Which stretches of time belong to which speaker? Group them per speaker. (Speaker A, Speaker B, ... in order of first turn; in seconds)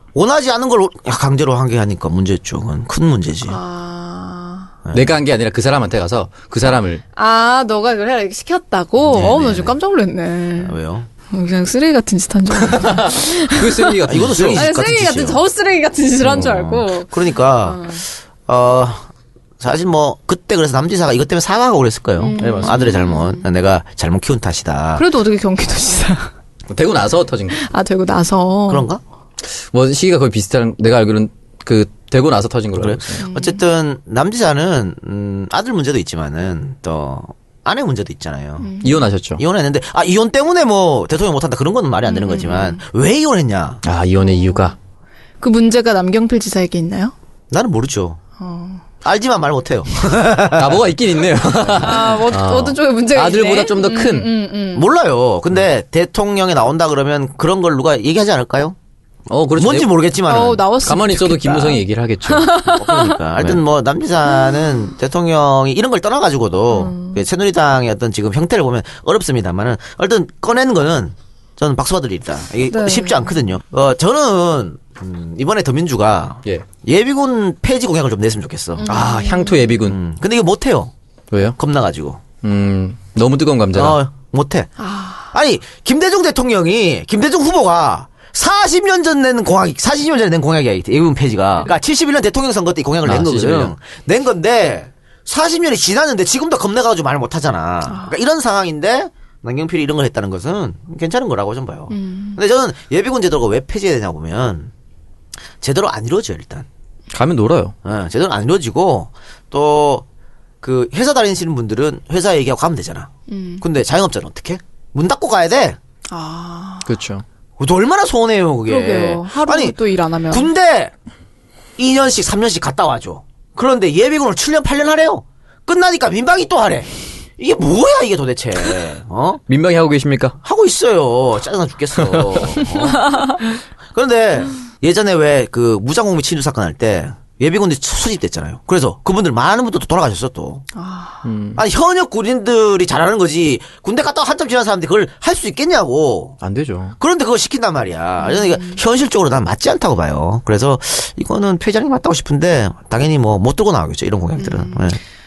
Speaker A: 0.1-3.6, 4.8-5.1, 9.1-9.8, 10.6-11.1, 14.1-15.4, 16.3-19.1, 19.6-25.1, 28.7-29.0, 32.8-38.7, 39.4-43.8, 47.5-48.2, 49.0-50.9, 51.6-52.0, 54.7-58.8, 59.6-60.6, 62.6-79.2, 79.8-80.9, 81.5-82.2, 83.7-84.7, 85.3-104.7, 105.6-106.7, 107.8-110.0, 110.6-113.1, 113.6-115.8, 117.6-119.8, 120.3-120.9, 121.8-129.4, 130.4-133.4, 133.9-140.7, 141.6-146.4, 147.0-155.0
Speaker B: 3.5-4.7, 7.2-10.8, 11.3-18.0, 22.2-23.5, 25.0-26.3, 27.5-28.9, 33.2-33.6, 38.6-39.1, 42.1-42.8, 44.2-44.7, 45.4-47.1, 48.4-48.8, 51.8-54.9, 60.3-63.2, 66.7-67.2, 72.7-73.3, 78.8-79.7, 84.8-85.3, 101.9-102.4, 113.3-113.6, 116.1-116.9, 118.7-120.5, 140.8-141.3, 148.2-148.8, 154.4-154.9
Speaker C: 4.9-7.0, 12.7-14.7, 16.2-16.5, 22.4-22.9, 26.7-27.6, 29.6-33.2, 38.8-39.4, 43.8-44.8, 50.5-54.3, 59.3-59.9, 60.8-62.6, 78.9-80.0, 81.3-81.6, 82.4-84.0, 93.0-93.7, 107.1-107.7, 116.9-117.2, 129.5-130.4, 132.0-132.5, 141.2-141.6, 146.4-147.0